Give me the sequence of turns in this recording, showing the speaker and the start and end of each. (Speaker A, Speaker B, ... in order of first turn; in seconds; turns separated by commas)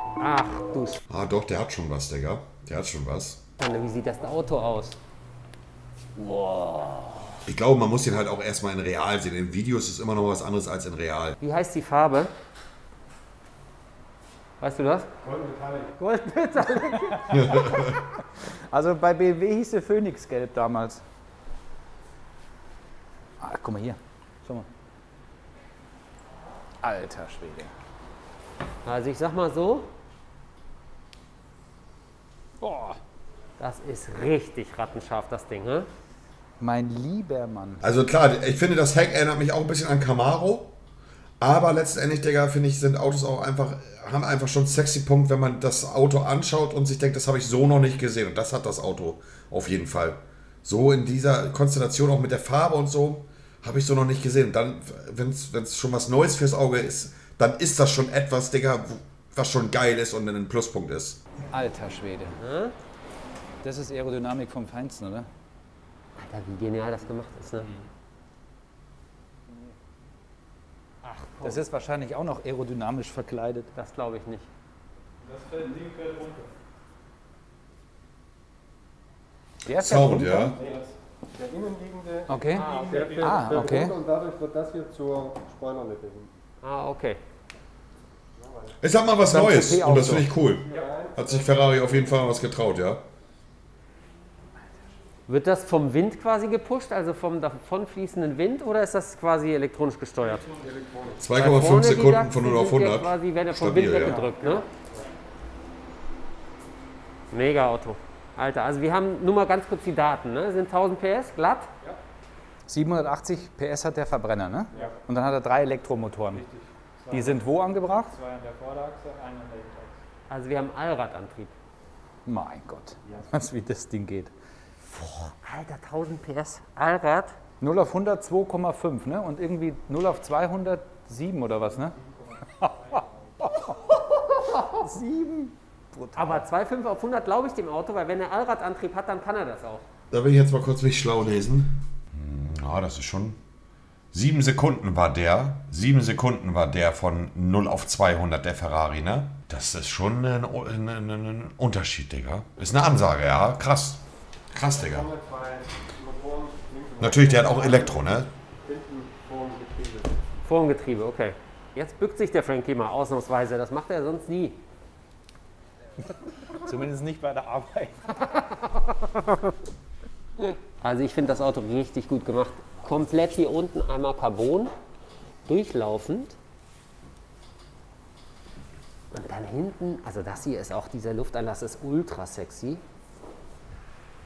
Speaker A: 0.2-1.0, Speaker B: 1.1-3.4, Speaker A: 3.6-5.0, Speaker A: 6.2-7.4, Speaker B: 7.5-11.4, Speaker A: 11.4-12.3, Speaker A: 14.6-15.1, Speaker C: 15.2-15.9, Speaker A: 16.0-17.8, Speaker D: 17.1-21.0, Speaker B: 17.3-18.0, Speaker D: 23.4-24.7, Speaker D: 26.8-27.7, Speaker A: 28.9-29.9, Speaker D: 32.6-33.0, Speaker A: 33.6-35.9, Speaker D: 36.6-37.8, Speaker B: 37.8-40.7, Speaker B: 41.4-61.2, Speaker D: 61.5-62.4, Speaker A: 62.4-62.8, Speaker D: 63.6-65.3, Speaker A: 66.2-67.7, Speaker A: 71.0-71.7, Speaker D: 71.4-73.7, Speaker A: 73.8-74.5, Speaker E: 75.2-76.5, Speaker D: 79.6-80.9, Speaker B: 79.7-80.6, Speaker C: 81.3-86.3, Speaker D: 82.3-84.0, Speaker A: 82.5-83.8, Speaker A: 86.6-87.2, Speaker C: 88.4-88.7, Speaker B: 88.8-93.0, Speaker D: 89.3-90.3, Speaker C: 90.7-91.6, Speaker A: 95.3-100.5, Speaker C: 100.6-101.2, Speaker B: 101.2-104.2, Speaker A: 101.3-104.7, Speaker A: 107.3-111.7, Speaker D: 112.7-116.4, Speaker D: 117.1-118.2, Speaker E: 118.2-120.0, Speaker A: 120.3-121.5, Speaker D: 122.3-124.3, Speaker A: 125.0-127.4, Speaker D: 127.6-133.9, Speaker A: 134.0-134.8, Speaker D: 134.7-136.4, Speaker A: 136.2-139.9, Speaker B: 140.1-143.4, Speaker B: 144.1-154.0, Speaker B: 154.5-155.1, Speaker C: 154.8-157.9, Speaker B: 157.0-158.3, Speaker C: 158.7-160.2, Speaker A: 160.4-164.6, Speaker D: 166.1-168.3, Speaker A: 170.4-174.7, Speaker A: 175.5-176.4, Speaker A: 179.1-182.8